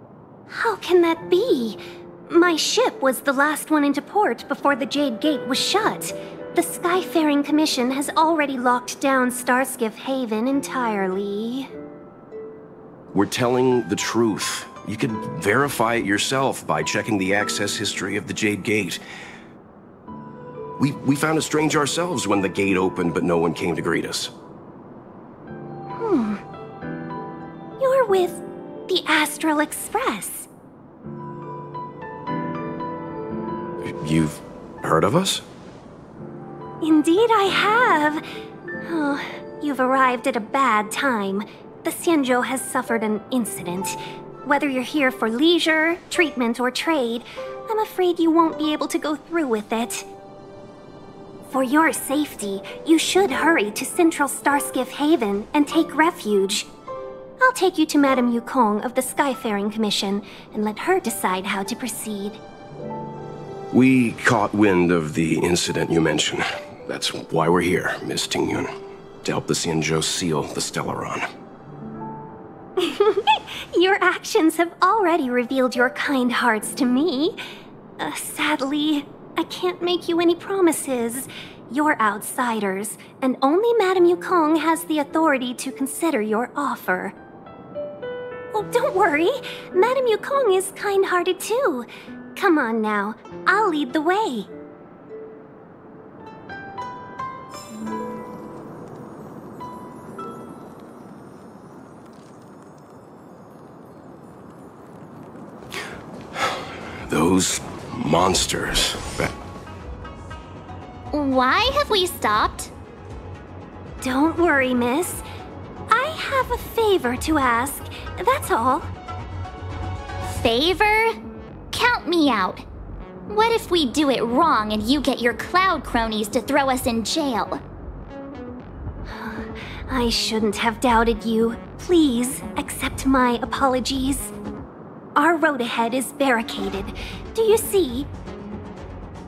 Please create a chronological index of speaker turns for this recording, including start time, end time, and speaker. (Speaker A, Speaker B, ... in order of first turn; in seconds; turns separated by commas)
Speaker A: 0.5-11.7, Speaker B: 13.1-19.0, Speaker B: 20.8-24.3, Speaker A: 25.9-26.4, Speaker A: 27.8-30.5, Speaker B: 33.8-35.4, Speaker A: 36.8-38.2, Speaker A: 38.8-50.1, Speaker A: 51.5-56.7, Speaker A: 57.4-62.4, Speaker B: 63.7-68.7, Speaker B: 69.2-71.2, Speaker A: 72.8-77.4, Speaker A: 78.0-87.1, Speaker A: 88.5-94.5, Speaker B: 106.3-109.3, Speaker C: 111.1-112.7, Speaker A: 114.0-115.2, Speaker A: 115.9-118.9, Speaker C: 120.3-121.2, Speaker C: 121.7-122.6, Speaker C: 123.3-127.6, Speaker A: 129.1-134.3, Speaker A: 135.1-138.1